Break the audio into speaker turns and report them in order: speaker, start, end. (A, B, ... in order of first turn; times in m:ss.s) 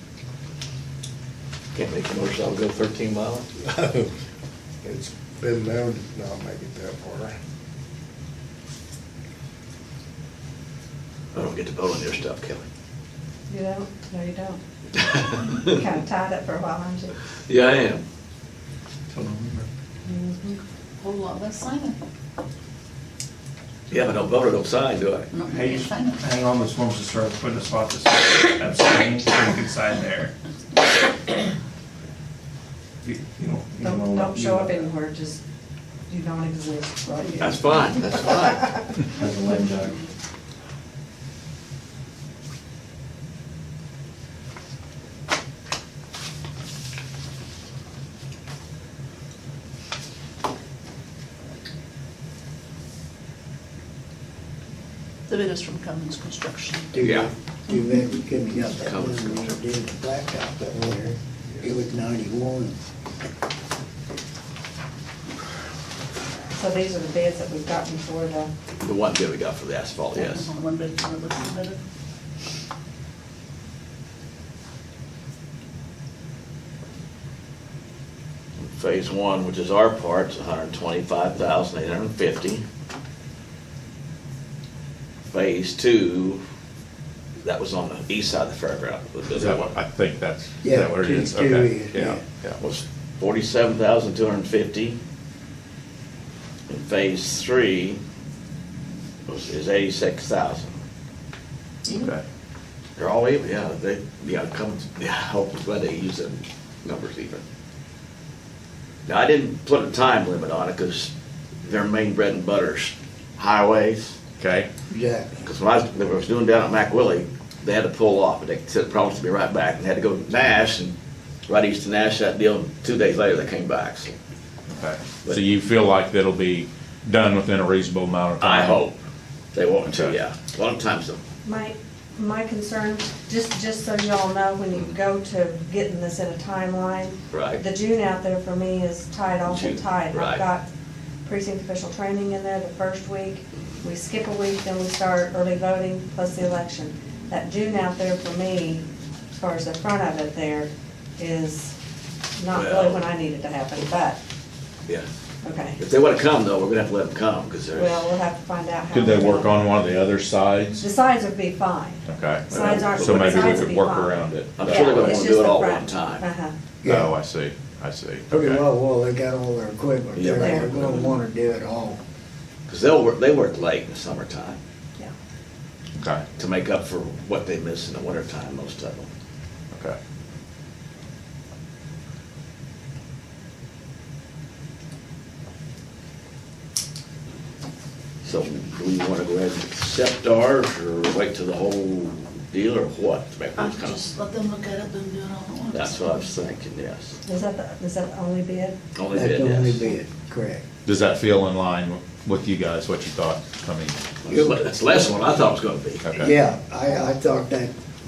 0:01.8-0:03.5 A
0:03.6-0:04.1 B
0:04.8-0:07.4 B
0:11.3-0:12.6 A
0:13.5-0:14.6 C
0:15.0-0:15.8 A
0:15.6-0:17.1 C
0:17.5-0:18.0 A
0:19.1-0:19.7 D
0:20.1-0:20.6 C
0:21.0-0:22.0 E
0:23.9-0:25.3 A
0:25.3-0:26.2 E
0:25.5-0:30.3 D
0:33.0-0:34.9 D
0:33.8-0:35.4 C
0:36.1-0:38.0 C
0:37.4-0:38.7 A
0:39.2-0:40.0 D
0:55.3-0:56.9 E
0:56.9-1:02.8 F
0:57.0-0:57.3 A
0:58.6-0:59.6 A
1:06.6-1:08.5 C
1:08.8-1:10.5 A
1:10.2-1:11.8 E
1:18.7-1:22.6 A
1:25.3-1:26.4 A
1:27.4-1:29.8 A
1:29.3-1:32.6 G
1:30.6-1:32.2 F
1:32.6-1:35.0 A
1:36.7-1:38.0 A
1:39.3-1:40.8 A
1:41.9-1:42.2 G
1:43.0-1:47.4 A
1:49.1-1:51.1 A
1:51.6-1:54.2 A
1:54.4-1:54.7 G
1:54.9-1:55.3 F
1:55.4-2:01.0 A
2:01.5-2:04.2 A
2:04.7-2:08.8 G
2:08.4-2:09.0 A
2:09.5-2:11.2 A
2:09.9-2:10.2 G
2:11.4-2:20.7 C
2:17.3-2:17.6 A
2:19.4-2:20.4 A
2:21.2-2:31.7 C
2:32.4-2:34.2 C
2:32.5-2:33.0 A
2:35.4-2:35.8 C
2:35.8-2:38.0 A
2:37.8-2:39.6 C
2:38.9-2:40.9 G
2:40.8-2:46.6 C
2:42.1-2:45.2 G
2:42.5-2:43.8 A
2:44.6-2:46.2 A
2:46.8-2:47.1 F
2:46.8-2:48.6 G
2:48.3-2:52.0 F
2:50.1-2:51.2 A
2:50.2-2:50.6 C
2:52.7-2:54.6 A
2:56.0-2:56.2 G
2:56.4-2:59.1 A
2:59.7-3:00.0 G
3:08.2-3:14.0 A
3:13.6-3:16.3 E
3:15.7-3:17.2 A
3:17.3-3:18.8 C
3:19.0-3:19.8 A
3:19.1-3:20.6 F
3:20.8-3:24.6 G
3:24.3-3:26.0 A
3:26.0-3:26.3 G
3:26.2-3:27.7 F